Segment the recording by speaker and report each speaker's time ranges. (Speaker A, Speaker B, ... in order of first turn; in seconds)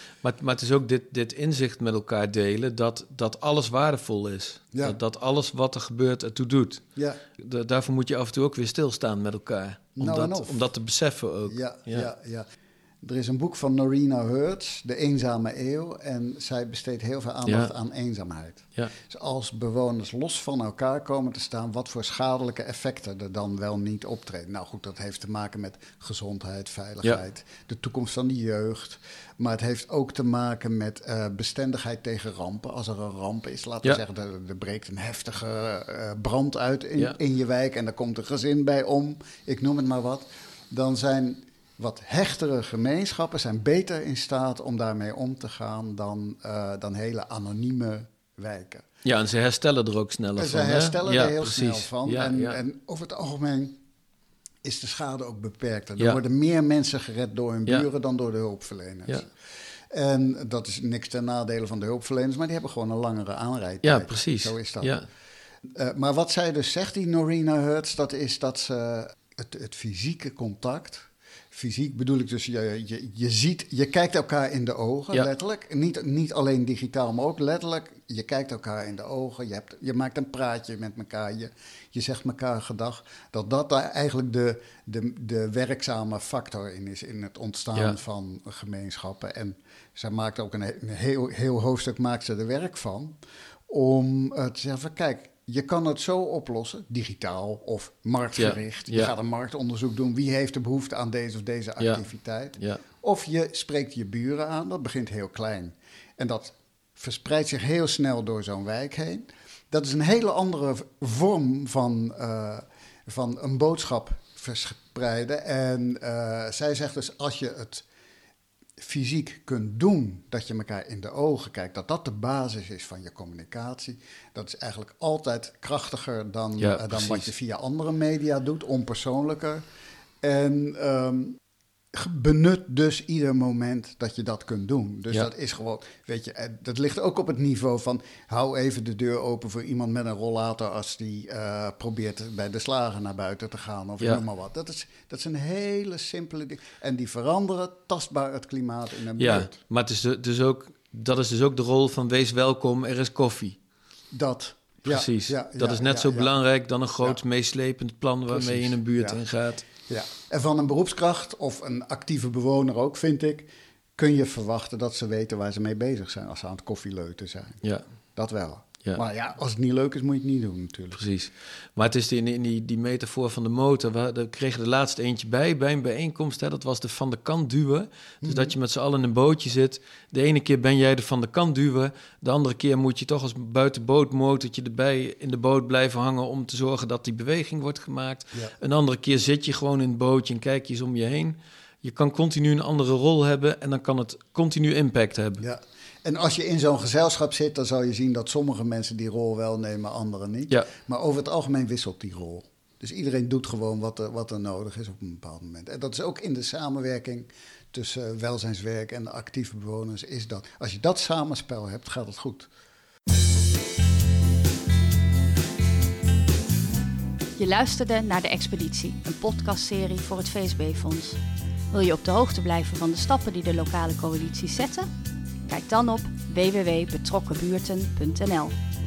Speaker A: 0.2-6.8, 7.4-12.1, 17.5-17.7, 49.0-52.6, 63.8-65.1, 98.4-99.1, 126.6-127.3, 149.2-153.6, 154.9-159.7, 170.9-195.4
Speaker B: 10.0-10.6, 11.5-12.5, 13.0-48.9, 50.4-53.8, 54.6-59.3, 59.9-65.0, 65.8-93.2, 93.7-117.8, 118.8-129.6, 130.2-131.4, 131.9-149.6, 154.1-156.3, 158.3-159.2, 159.9-167.6, 168.2-171.0, 178.2-178.6, 195.4-212.5
Speaker C: 217.4-221.2, 221.7-224.9, 225.5-228.6